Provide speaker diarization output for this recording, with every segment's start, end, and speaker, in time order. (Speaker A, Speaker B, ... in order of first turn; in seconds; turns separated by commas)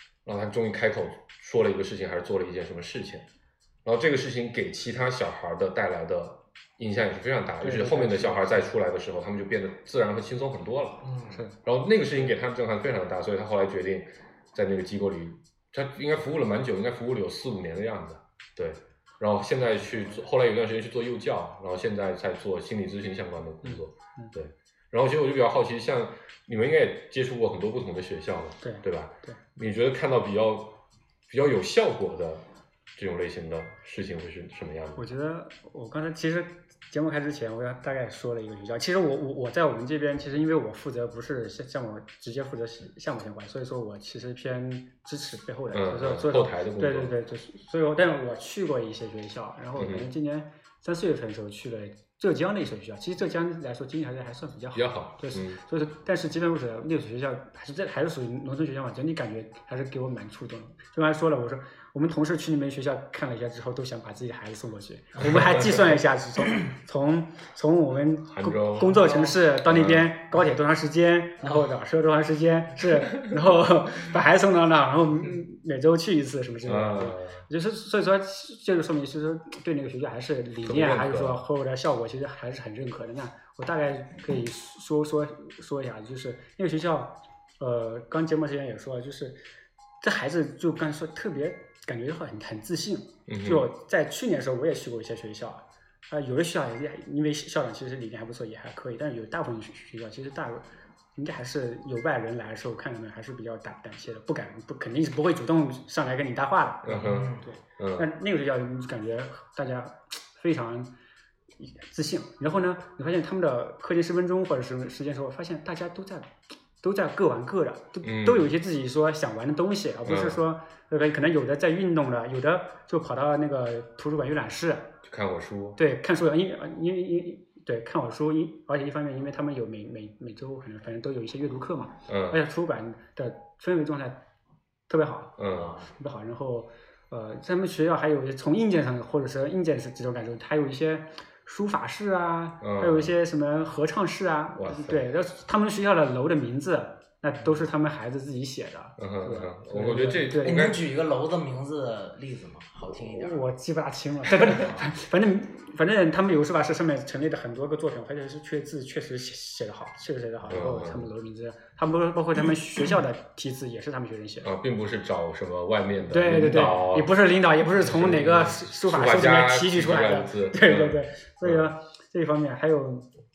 Speaker A: 0.2-3.2, Speaker A: 3.9-11.1, Speaker B: 7.6-8.7, Speaker C: 11.0-11.4, Speaker A: 11.6-32.4, Speaker B: 23.6-24.3, Speaker B: 28.6-29.4, Speaker A: 32.9-35.0, Speaker B: 35.0-89.4, Speaker A: 45.7-47.1, Speaker A: 49.8-50.1, Speaker A: 54.7-55.6, Speaker A: 68.2-70.1, Speaker A: 76.7-77.4, Speaker A: 80.6-81.4, Speaker B: 90.0-110.9, Speaker A: 93.3-93.7, Speaker A: 106.8-108.1, Speaker C: 106.9-107.5, Speaker B: 111.6-124.9, Speaker A: 118.0-118.5, Speaker A: 120.0-120.4, Speaker A: 125.0-125.8, Speaker B: 125.8-134.2, Speaker A: 132.1-132.4, Speaker B: 134.9-150.6, Speaker A: 135.4-135.8, Speaker C: 135.5-135.8, Speaker A: 142.6-143.1, Speaker A: 144.6-145.0, Speaker A: 149.0-150.8, Speaker C: 150.3-153.5, Speaker B: 153.0-164.5, Speaker C: 154.3-154.9, Speaker A: 160.5-161.1, Speaker A: 164.4-167.1, Speaker B: 166.1-173.1, Speaker A: 167.8-171.7